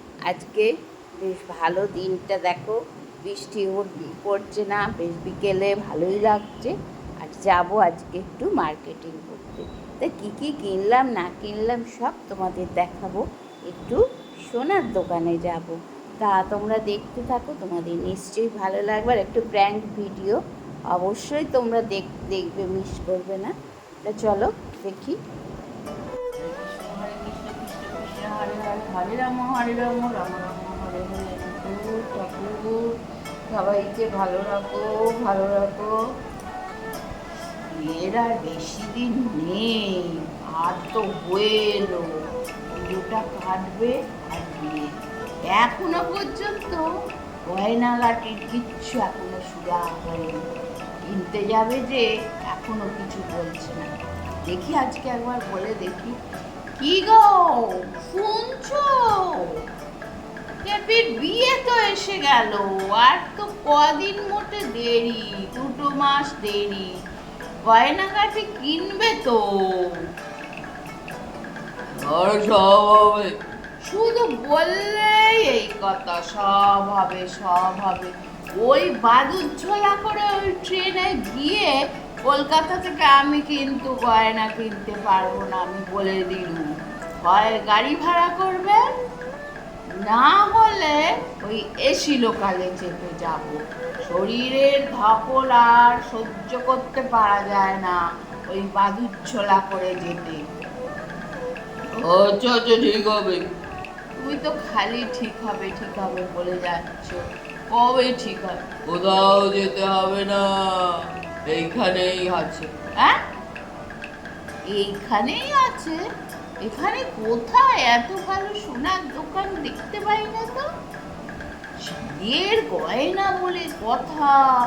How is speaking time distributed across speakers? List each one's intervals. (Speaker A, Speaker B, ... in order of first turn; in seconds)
Speaker A: 0.3-0.7, 1.2-20.4, 20.9-23.5, 24.1-25.2, 26.4-32.7, 33.5-35.9, 37.7-42.1, 42.8-44.9, 45.5-46.8, 47.5-50.4, 51.1-53.9, 54.5-56.2, 56.8-57.2, 58.0-58.9, 60.6-66.9, 67.7-69.4, 73.8-81.7, 82.3-86.7, 87.2-88.8, 90.0-100.4, 104.2-108.6, 114.7-116.0, 116.6-120.7, 121.8-124.3
Speaker B: 72.1-73.2, 102.1-103.4, 108.9-110.5, 111.5-112.7